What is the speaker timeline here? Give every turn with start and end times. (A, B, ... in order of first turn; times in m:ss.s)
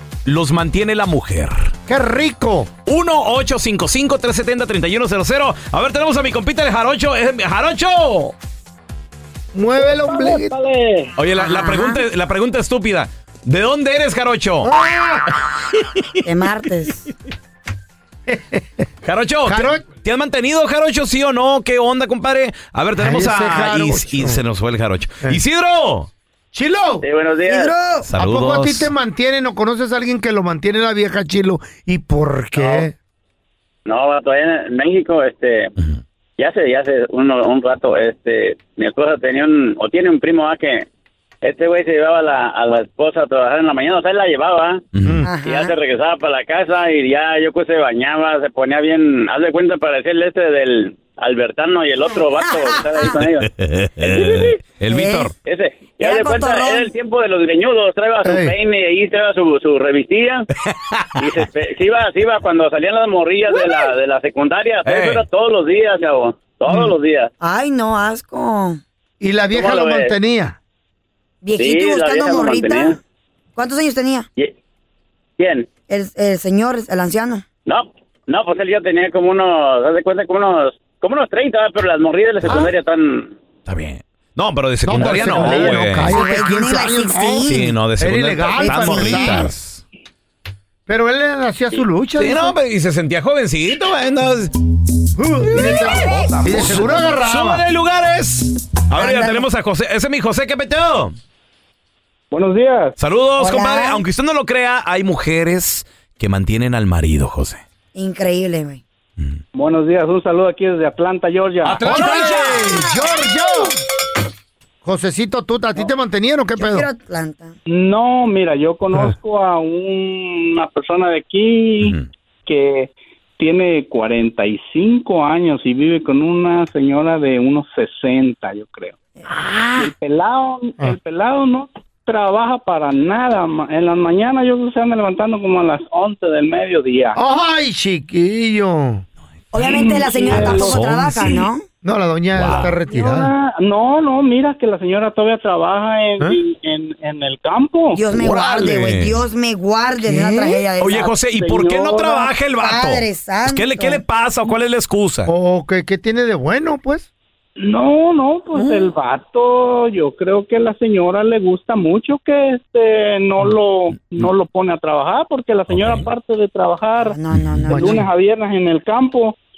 0:00.2-0:01.7 A
0:01.9-0:02.7 B
0:02.8-0:08.3 A
0:09.5-0:10.5 B
0:11.2-0:14.7 A
0:11.4-0:12.0 C
0:14.6-0:15.3 B
0:16.2-0:17.0 C
0:18.3-0:18.9 B
0:19.0-0:26.1 A
0:19.4-0:19.8 B
0:23.0-0:24.4 B
0:26.5-0:27.0 B
0:27.0-0:27.7 D
0:27.4-0:28.0 C
0:28.0-0:28.9 A
0:28.2-0:32.9 B
0:33.8-0:35.7 D
0:36.4-0:40.8 D
0:41.4-0:44.8 D
0:44.9-0:45.2 A
0:45.0-0:45.3 B
0:45.2-0:45.7 C
0:45.4-0:53.5 D
0:52.3-0:53.2 C
0:53.2-0:55.3 A
0:54.9-0:55.3 C
0:55.4-1:00.5 D
0:56.0-0:56.9 C
0:58.2-0:58.5 B
1:00.6-1:01.4 A
1:01.2-1:07.3 D
1:04.8-1:05.2 A
1:07.4-1:08.8 C
1:09.2-1:10.6 B
1:09.5-1:10.1 D
1:11.4-1:13.0 C
1:11.6-1:13.0 D
1:13.6-1:14.2 C
1:15.4-1:15.7 D
1:15.9-1:17.4 C
1:17.7-1:23.3 D
1:22.4-1:22.7 B
1:23.6-1:26.1 A
1:24.8-1:29.5 B
1:25.5-1:27.7 C
1:27.4-1:29.8 A
1:28.6-1:29.4 C
1:30.9-1:32.6 B
1:32.2-1:34.5 A
1:35.2-1:37.6 B
1:35.8-1:41.2 A
1:36.0-1:36.3 C
1:39.0-1:39.4 C
1:42.3-1:42.9 E
1:43.0-1:47.6 A
1:43.4-1:44.0 C
1:47.9-1:48.8 C
1:49.5-1:51.8 E
1:51.6-1:52.8 A
1:51.8-1:53.8 B
1:54.8-1:56.9 B
1:56.6-1:57.6 C
1:57.7-2:08.9 E
1:58.9-1:59.2 B
2:01.8-2:02.1 A
2:09.2-2:09.8 C
2:09.8-2:17.2 E
2:17.1-2:19.0 B
2:19.5-2:21.6 C
2:19.6-2:20.8 E
2:20.3-2:21.4 A
2:21.8-2:23.3 B
2:22.3-2:22.7 A
2:22.9-2:28.0 E
2:27.9-2:31.1 C
2:28.1-2:29.2 A
2:30.0-2:30.6 B
2:30.8-2:35.3 A
2:31.3-2:32.3 E
2:32.6-2:34.0 C
2:35.2-2:37.1 B
2:37.6-2:47.2 E
2:45.7-2:46.1 A
2:47.0-2:48.0 C
2:47.7-2:48.0 B
2:47.7-2:49.3 E